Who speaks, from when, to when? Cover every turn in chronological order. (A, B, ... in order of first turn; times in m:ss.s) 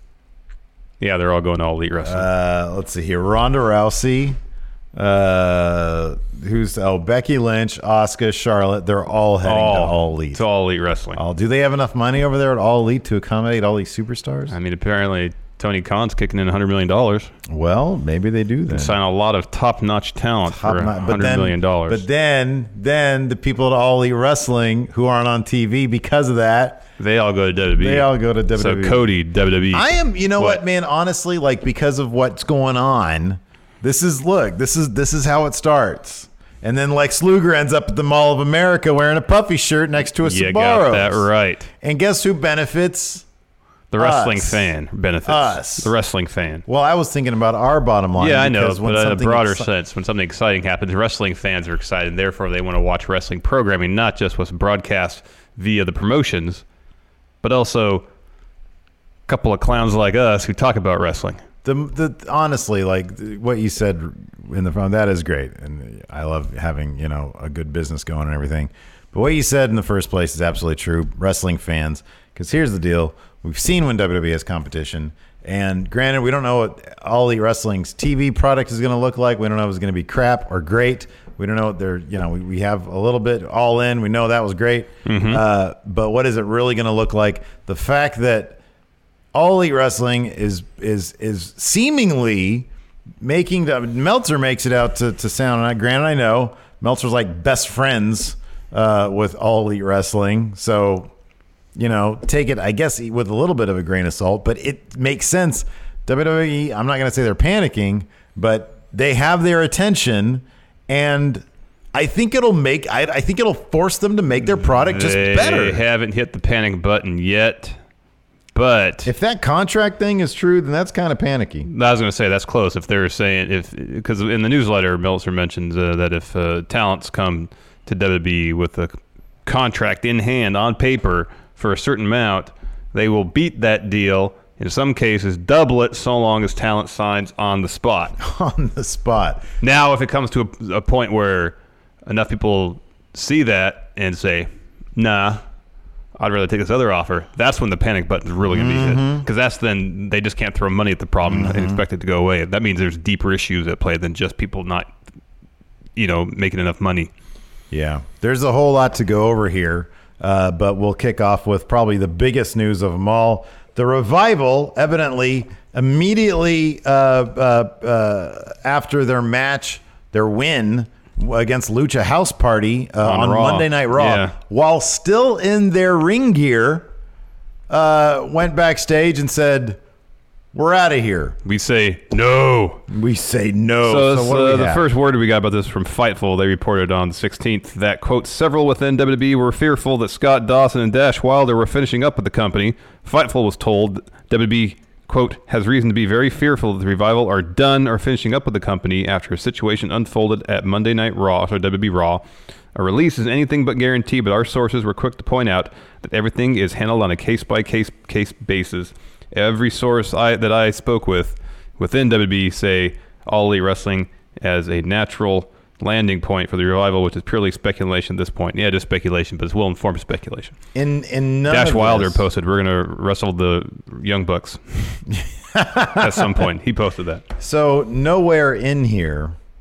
0:01.0-0:02.3 A
0:02.0-0:04.4 B
0:04.9-0:10.4 B
0:09.4-0:11.2 A
0:11.1-0:14.5 B
0:14.5-0:17.3 A
0:17.5-0:19.0 B
0:18.7-0:22.0 A
0:20.5-0:26.8 B
0:27.0-0:30.6 A
0:27.8-0:29.1 B
0:29.7-0:41.2 B
0:40.2-0:41.7 A
0:41.8-0:43.2 B
0:43.9-0:46.6 A
0:44.0-0:44.7 B
0:45.2-0:45.9 B
0:46.7-0:49.7 B
0:48.2-0:56.6 A
0:57.4-0:58.0 A
0:59.3-1:01.4 A
1:01.6-1:28.6 B
1:25.0-1:25.4 A
1:29.3-1:32.7 B
1:33.2-1:41.1 B
1:41.8-1:55.8 B
1:54.6-1:57.8 A
1:58.5-1:59.1 A
1:59.0-2:01.7 B
2:01.7-2:18.2 A
2:18.2-2:19.4 B
2:19.6-2:25.4 A
2:26.2-2:34.9 A
2:28.5-2:29.3 B
2:31.2-2:31.8 B
2:36.0-2:37.1 A
2:37.7-2:56.9 B
2:53.0-2:54.4 A
2:57.7-2:59.8 B
3:00.5-3:01.4 B
3:01.4-3:02.8 A
3:02.9-3:04.9 B
3:03.8-3:22.2 A
3:22.7-3:40.6 A
3:40.7-3:42.2 B
3:41.5-3:45.0 A
3:45.2-3:46.5 B
3:46.0-3:47.2 A
3:47.4-3:49.4 B